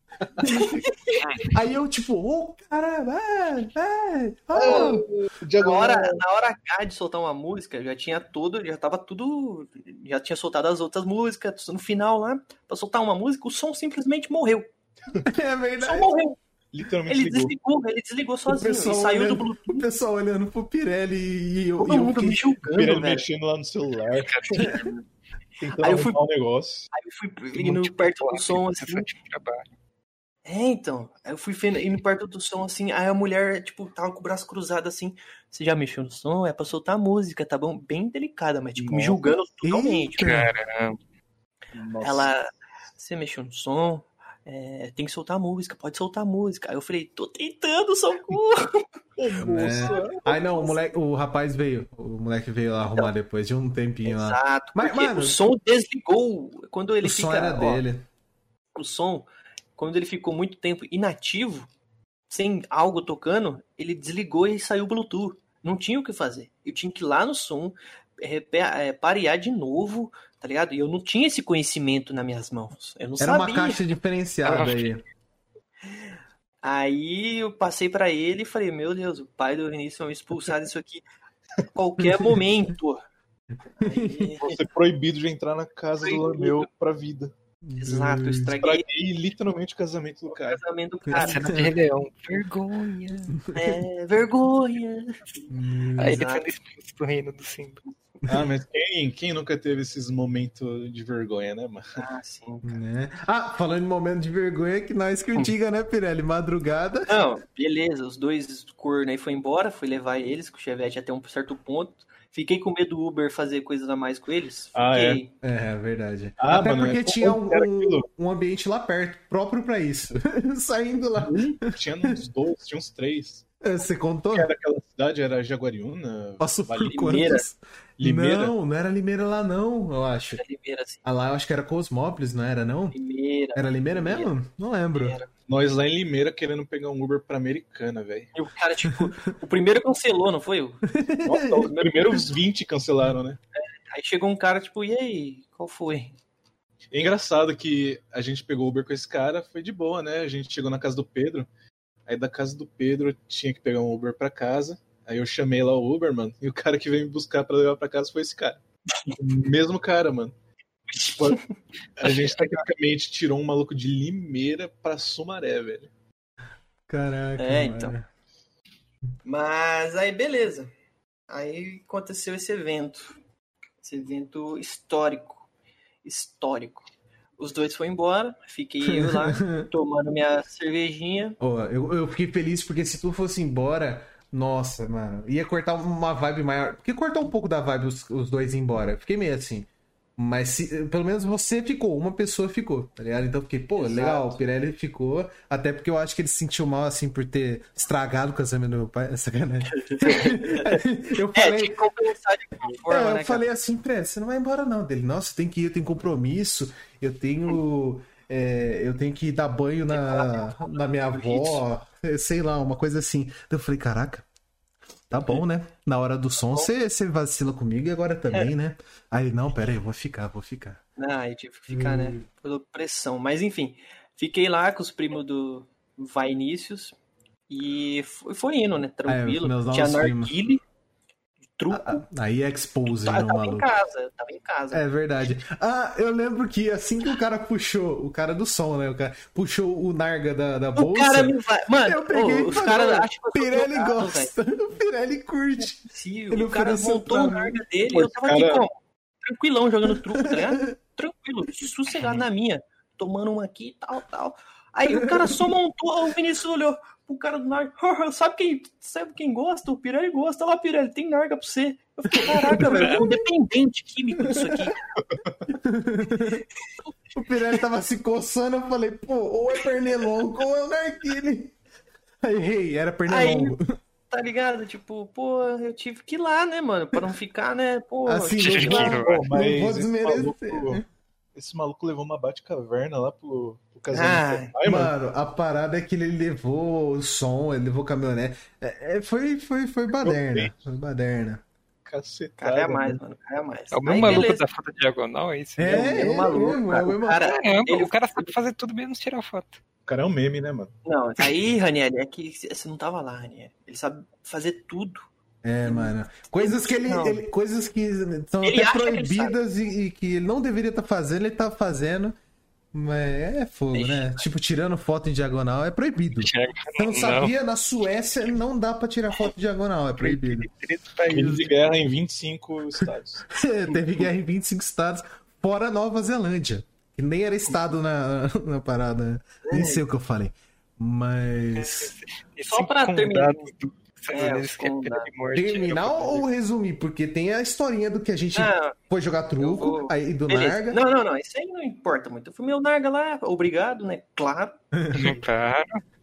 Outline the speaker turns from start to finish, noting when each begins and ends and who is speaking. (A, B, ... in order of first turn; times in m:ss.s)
0:00.4-0:00.8 A
0:00.4-0:01.2 B
0:01.5-0:05.0 A
0:04.6-0:06.2 C
0:04.6-0:05.0 B
0:05.6-0:14.7 B
0:15.2-0:16.1 A
0:15.8-0:16.4 B
0:16.7-0:17.5 C
0:17.1-0:19.8 B
0:18.5-0:22.4 A
0:21.8-0:23.3 B
0:22.7-0:24.5 C
0:24.1-0:25.0 D
0:25.6-0:26.9 C
0:25.7-0:26.2 B
0:26.9-0:29.1 B
0:27.5-0:29.7 D
0:30.4-0:40.3 B
0:38.8-0:39.2 C
0:39.6-0:40.5 A
0:40.2-0:41.0 D
0:41.7-0:42.3 C
0:42.0-0:48.8 B
0:49.2-0:50.4 C
0:49.4-0:55.4 A
0:49.8-0:50.6 B
0:54.0-0:57.8 B
0:57.0-0:58.0 A
0:58.7-1:01.7 B
1:02.3-1:13.8 B
1:13.2-1:15.0 A
1:14.4-1:14.9 D
1:16.6-1:21.0 B
1:21.6-1:23.0 B
1:22.0-1:22.4 A
1:23.8-1:24.3 A
1:23.8-1:24.6 B
1:24.4-1:27.3 C
1:26.0-1:26.7 B
1:27.6-1:28.6 A
1:27.8-1:28.8 B
1:28.6-1:30.6 C
1:30.4-1:31.5 B
1:31.1-1:31.7 A
1:31.1-1:33.4 D
1:33.4-1:33.8 A
1:33.5-1:35.4 B
1:35.5-1:36.2 A
1:36.0-1:37.8 D
1:36.0-1:36.5 B
1:38.3-1:42.0 C
1:42.0-1:42.8 B
1:42.6-1:47.1 A
1:47.1-1:55.3 B
1:54.7-1:55.2 C
1:55.4-2:02.2 A
1:56.4-1:58.1 C
2:01.2-2:03.4 C
2:03.6-2:04.5 A
2:04.3-2:07.2 C
2:06.4-2:10.4 A
2:06.8-2:07.4 B
2:08.0-2:08.5 C
2:10.4-2:11.0 B
2:11.0-2:13.0 A
2:12.9-2:14.3 B
2:13.5-2:15.2 A
2:14.9-2:15.3 B
2:15.5-2:18.3 C
2:18.3-2:20.8 B
2:20.9-2:21.6 A
2:21.2-2:23.4 C
2:21.4-2:22.4 B
2:23.6-2:26.1 B
2:26.9-2:31.5 C
2:32.1-2:38.6 C
2:39.2-2:40.3 C
2:40.9-2:41.4 B
2:42.0-2:45.9 C
2:42.0-2:42.6 B
2:46.9-2:48.0 A
2:47.4-2:47.9 B
2:49.2-2:50.7 B
2:51.3-2:53.2 B
2:53.8-2:55.5 B
2:56.0-3:01.4 B
2:58.8-2:59.7 A
3:01.4-3:21.8 A
3:13.8-3:14.4 B
3:19.8-3:20.8 B
3:21.3-3:23.4 B
3:22.9-3:34.2 A
3:29.9-3:31.6 B
3:35.1-3:40.8 A
3:36.4-3:36.7 B
3:41.0-3:47.0 B
3:41.7-3:42.2 A
3:47.5-3:50.6 B
3:49.1-3:50.3 A
3:51.6-3:52.0 B
3:51.7-3:53.7 A
3:52.9-3:54.8 B
3:54.7-4:07.6 A
4:00.8-4:04.3 B
4:05.9-4:24.9 B
4:07.9-4:08.6 C
4:10.1-4:10.8 A
4:14.9-4:15.4 A
4:22.2-4:23.0 A
4:22.7-4:23.0 D
4:24.2-4:24.7 A
4:25.0-4:25.4 C
4:25.5-4:26.4 A
4:27.1-4:31.5 A
4:32.2-4:33.8 A
4:33.1-4:33.5 B
4:34.1-4:39.0 B
4:38.0-4:40.8 A
4:38.4-4:39.2 D
4:39.0-4:40.8 C
4:41.3-4:44.9 C
4:43.9-4:44.5 B
4:44.6-4:51.4 A
4:50.0-4:50.5 C
4:51.8-4:53.0 C
4:52.4-4:54.4 B
4:53.7-4:56.1 D
4:55.6-4:57.2 A
4:55.7-4:58.3 B
4:57.2-4:59.6 D
4:59.8-5:00.7 C
5:00.8-5:05.1 B
5:05.4-5:12.2 A
5:05.6-5:07.2 B
5:08.4-5:09.4 B
5:12.7-5:20.5 A
5:13.7-5:14.2 B
5:16.2-5:17.3 D
5:20.0-5:21.6 D
5:21.1-5:23.3 C
5:23.3-5:31.9 A
5:29.4-5:29.8 B
5:31.5-5:36.3 D
5:32.5-5:33.5 B
5:34.1-5:35.1 B
5:35.3-5:40.8 A
5:38.3-5:38.8 B
5:39.4-5:44.6 B
5:44.7-5:45.1 A
5:44.9-5:45.8 D